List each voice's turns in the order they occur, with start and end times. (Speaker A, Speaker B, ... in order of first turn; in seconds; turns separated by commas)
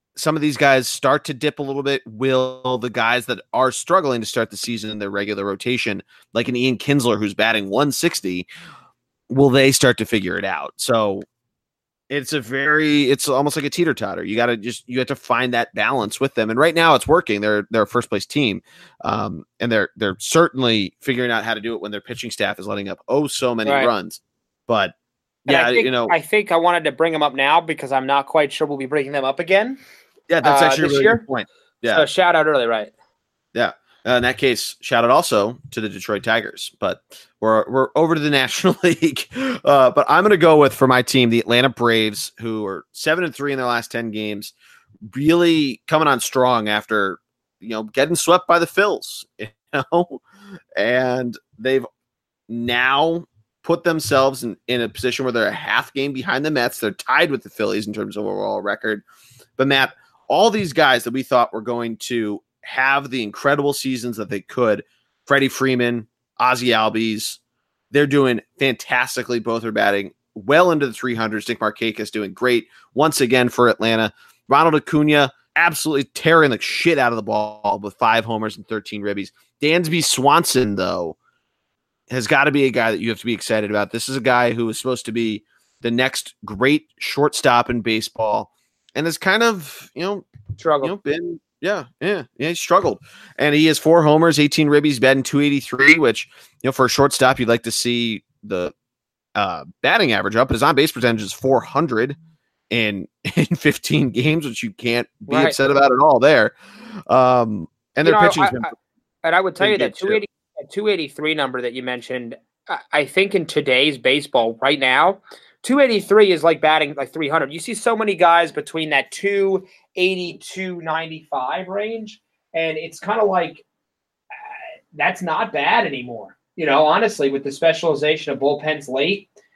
Speaker A: 0.1-8.5, Speaker A: 9.3-11.2, Speaker A: 12.1-24.9, Speaker B: 23.6-23.9, Speaker A: 25.5-26.1, Speaker B: 25.5-29.8, Speaker A: 30.3-32.1, Speaker B: 30.4-31.2, Speaker B: 31.9-32.9, Speaker A: 33.5-44.5, Speaker A: 45.1-50.2, Speaker A: 50.8-51.9, Speaker A: 52.5-59.0, Speaker A: 59.6-67.4, Speaker A: 67.9-81.2, Speaker A: 82.1-90.3, Speaker B: 90.6-90.9, Speaker A: 90.8-98.7, Speaker A: 99.3-102.2, Speaker A: 102.7-106.6, Speaker B: 105.3-105.5, Speaker A: 107.1-108.7, Speaker B: 108.0-108.7, Speaker B: 109.2-123.6, Speaker A: 109.6-110.2, Speaker B: 124.3-129.3